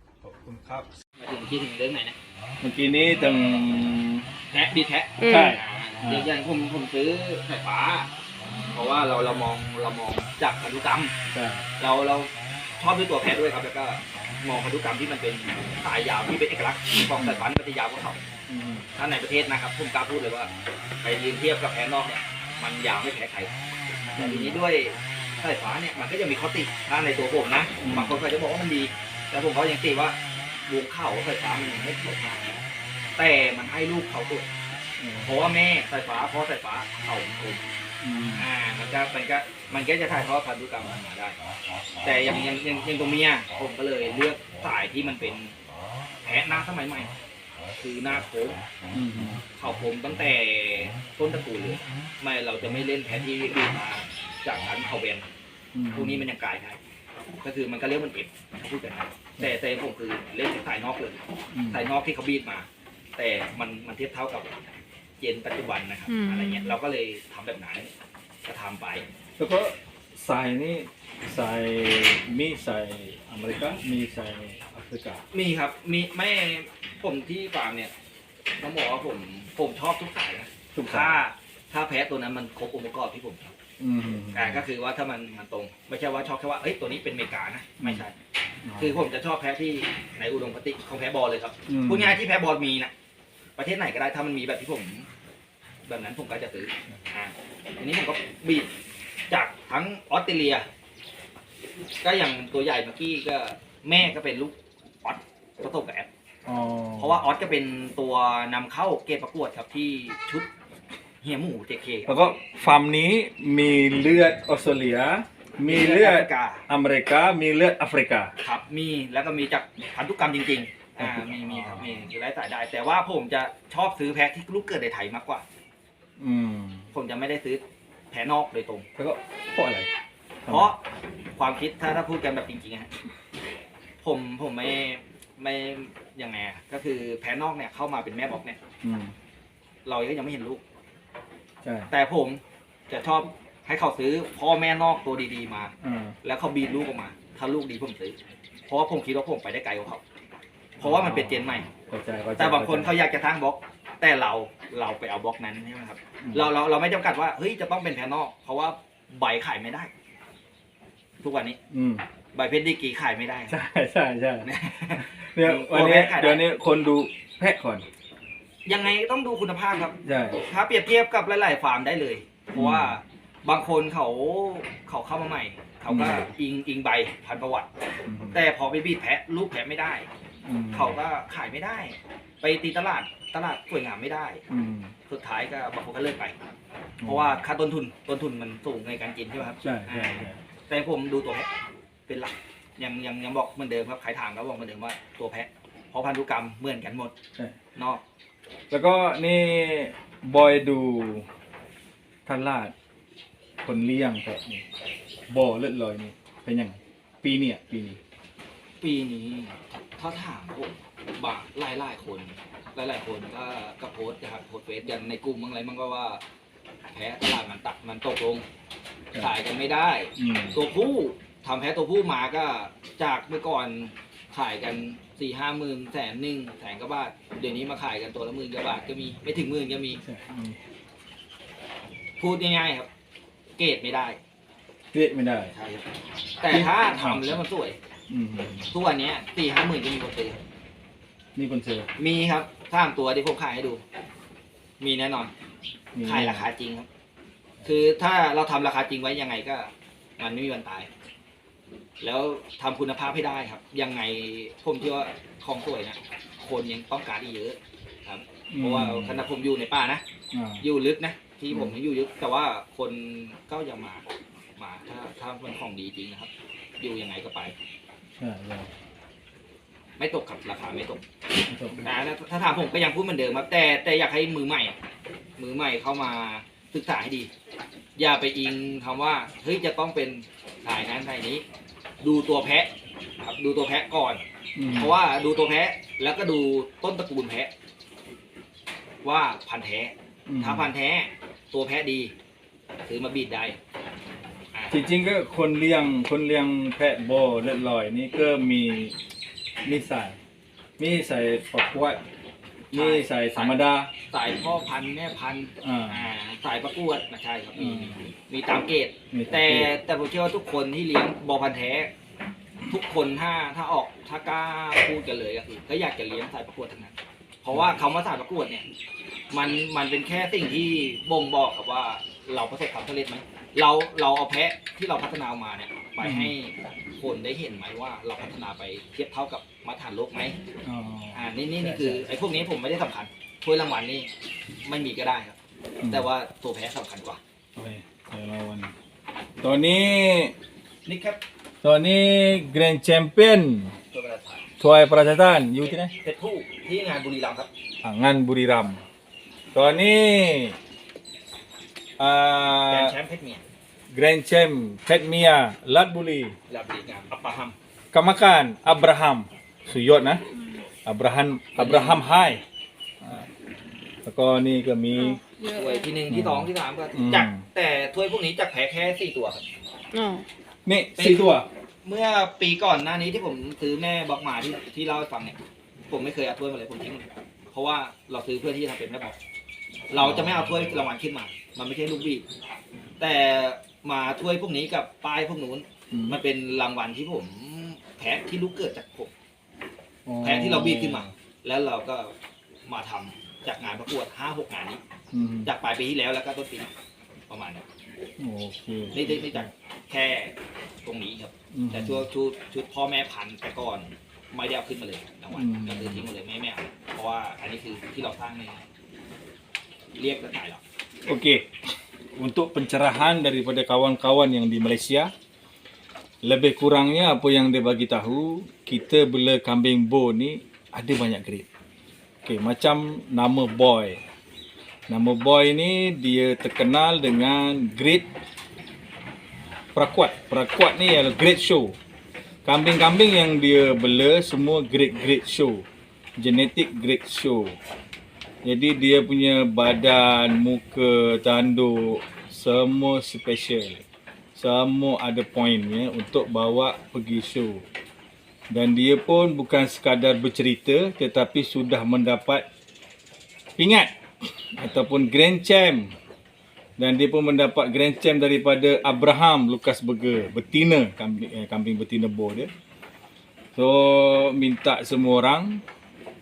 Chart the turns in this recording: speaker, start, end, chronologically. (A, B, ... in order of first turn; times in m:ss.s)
0:00.2-0:00.9 A
0:01.2-0:02.2 B
0:02.6-0:04.3 A
0:04.5-0:11.1 B
0:05.2-0:05.6 C
0:05.2-0:06.3 A
0:11.3-0:11.6 A
0:11.8-0:18.3 B
0:17.2-0:17.4 A
0:18.5-0:18.9 A
0:18.9-0:20.5 B
0:21.0-0:23.5 B
0:24.1-0:24.6 A
0:24.1-0:32.6 B
0:27.8-0:28.2 A
0:33.2-0:34.5 B
0:35.0-0:35.4 A
0:35.2-0:37.6 B
0:38.0-0:38.5 A
0:38.3-0:41.4 B
0:42.0-0:45.5 B
0:46.2-0:47.1 B
0:47.8-0:48.6 B
0:48.9-0:49.4 A
0:49.5-0:55.3 B
0:55.7-0:56.2 A
0:55.9-0:56.8 B
0:57.4-1:04.6 B
1:01.5-1:01.9 A
1:05.2-1:07.9 B
1:06.1-1:06.7 C
1:08.4-1:09.0 B
1:09.4-1:15.2 A
1:15.3-1:17.9 B
1:18.6-1:23.5 B
1:20.7-1:21.2 A
1:23.8-1:24.6 A
1:24.3-1:28.2 B
1:28.6-1:29.0 A
1:28.8-1:32.9 B
1:31.7-1:32.2 A
1:33.6-1:35.1 B
1:35.8-1:38.7 B
1:39.3-1:40.7 B
1:42.0-1:46.1 B
1:46.4-1:47.2 A
1:47.0-1:50.5 B
1:51.2-1:52.4 B
1:52.0-1:58.3 A
1:55.6-1:56.6 B
1:58.4-2:05.4 B
2:01.0-2:02.1 A
2:06.2-2:06.9 A
2:06.9-2:08.9 B
2:09.0-2:09.9 A
2:10.4-2:10.7 A
2:10.5-2:10.8 B
2:11.4-2:12.9 B
2:14.0-2:18.6 B
2:18.8-2:19.1 A
2:19.8-2:20.6 B
2:21.6-2:21.9 A
2:21.9-2:30.0 B
2:25.8-2:26.2 A
2:30.8-2:31.7 B
2:30.8-2:32.9 A
2:32.4-2:39.9 B
2:36.2-2:36.5 A
2:41.2-2:41.6 B
2:41.7-2:42.0 A
2:42.3-2:43.6 B
2:43.5-2:47.8 A
2:44.4-2:46.4 B
2:48.6-2:57.7 B
2:50.0-2:50.4 A
2:52.5-2:53.0 A
2:55.9-2:56.3 A
2:58.1-2:58.4 A
2:58.3-3:00.1 B
3:00.4-3:01.0 A
3:00.7-3:04.4 B
3:04.5-3:04.9 A
3:05.1-3:06.3 B
3:07.0-3:07.4 A
3:07.0-3:11.5 B
3:09.6-3:10.4 A
3:12.1-3:17.1 B
3:17.7-3:18.0 B
3:18.7-3:21.2 A
3:22.2-3:22.7 A
3:23.6-3:24.6 A
3:25.3-3:28.0 A
3:28.8-3:36.2 B
3:36.8-3:38.4 B
3:39.1-3:50.0 B
3:40.2-3:40.6 A
3:50.0-3:50.6 A
3:52.2-3:52.9 B
3:53.6-3:54.2 B
3:54.9-3:55.5 A
3:55.5-3:55.9 B
3:56.4-3:57.8 B
3:56.5-3:57.4 A
3:58.1-3:58.7 A
3:58.7-4:00.4 B
4:01.4-4:01.9 A
4:02.0-4:03.8 B
4:04.8-4:05.3 B
4:05.9-4:06.5 A
4:06.0-4:06.9 B
4:07.6-4:10.9 B
4:12.0-4:20.0 B
4:18.5-4:19.2 A
4:20.3-4:20.6 A
4:20.6-4:24.0 B
4:21.5-4:21.8 A
4:24.6-4:27.5 B
4:28.2-4:28.7 A
4:30.0-4:31.0 B
4:31.5-4:31.9 A
4:31.8-4:34.8 B
4:35.4-4:37.3 B
4:38.0-4:41.4 B
4:42.0-4:42.7 B
4:43.2-4:47.5 B
4:44.6-4:45.0 A
4:49.0-4:52.1 B
4:50.3-4:50.7 A
4:52.9-4:53.6 B
4:54.5-4:54.8 B
4:54.7-4:58.9 A
4:59.6-5:00.2 A
5:00.8-5:02.0 A
5:02.7-5:03.9 A
5:02.7-5:11.9 B
5:05.6-5:06.1 A
5:07.5-5:08.1 A
5:09.1-5:09.7 A
5:12.7-5:18.6 B
5:19.3-5:30.4 B
5:26.0-5:26.3 A
5:30.6-5:32.2 A
5:31.1-5:34.1 B
5:34.6-5:35.4 B
5:35.9-5:37.2 B
5:37.6-5:38.7 A
5:39.4-5:40.3 A
5:40.8-5:41.2 B
5:41.6-5:43.7 A
5:43.9-5:44.4 B
5:44.6-5:45.9 A
5:45.6-5:47.5 B
5:47.8-5:48.8 A
5:49.5-5:50.6 A
5:52.0-5:52.9 A
5:52.7-5:53.4 B
5:53.9-5:56.4 A
5:56.5-5:57.6 B
5:57.9-6:00.2 A
6:00.8-6:02.4 A
6:01.6-6:02.1 B
6:04.0-6:05.2 A
6:05.0-6:05.8 C
6:05.6-6:09.4 B
6:06.1-6:07.4 A
6:09.9-6:10.2 C
6:10.6-6:11.5 A
6:11.0-6:15.4 B
6:15.9-6:19.2 B
6:19.9-6:22.2 B
6:20.0-6:20.9 A
6:23.0-6:29.1 B
6:25.9-6:26.2 A
6:30.0-6:31.1 A
6:30.2-6:32.1 B
6:32.6-6:34.8 B
6:35.1-6:35.5 A
6:35.4-6:36.7 B
6:37.3-6:37.6 B
6:38.2-6:39.5 A
6:38.9-6:48.6 B
6:41.5-6:42.1 A
6:45.3-6:46.0 A
6:50.0-6:50.6 B
6:51.0-6:51.5 A
6:52.2-6:55.1 A
6:56.2-7:01.5 A
7:02.2-7:04.0 A
7:04.9-7:08.1 A
7:09.7-7:11.8 A
7:12.4-7:15.6 A
7:16.2-7:17.6 A
7:18.4-7:23.8 A
7:24.4-7:27.6 A
7:28.5-7:32.4 A
7:33.6-7:35.9 A
7:36.8-7:42.5 A
7:43.5-7:45.6 A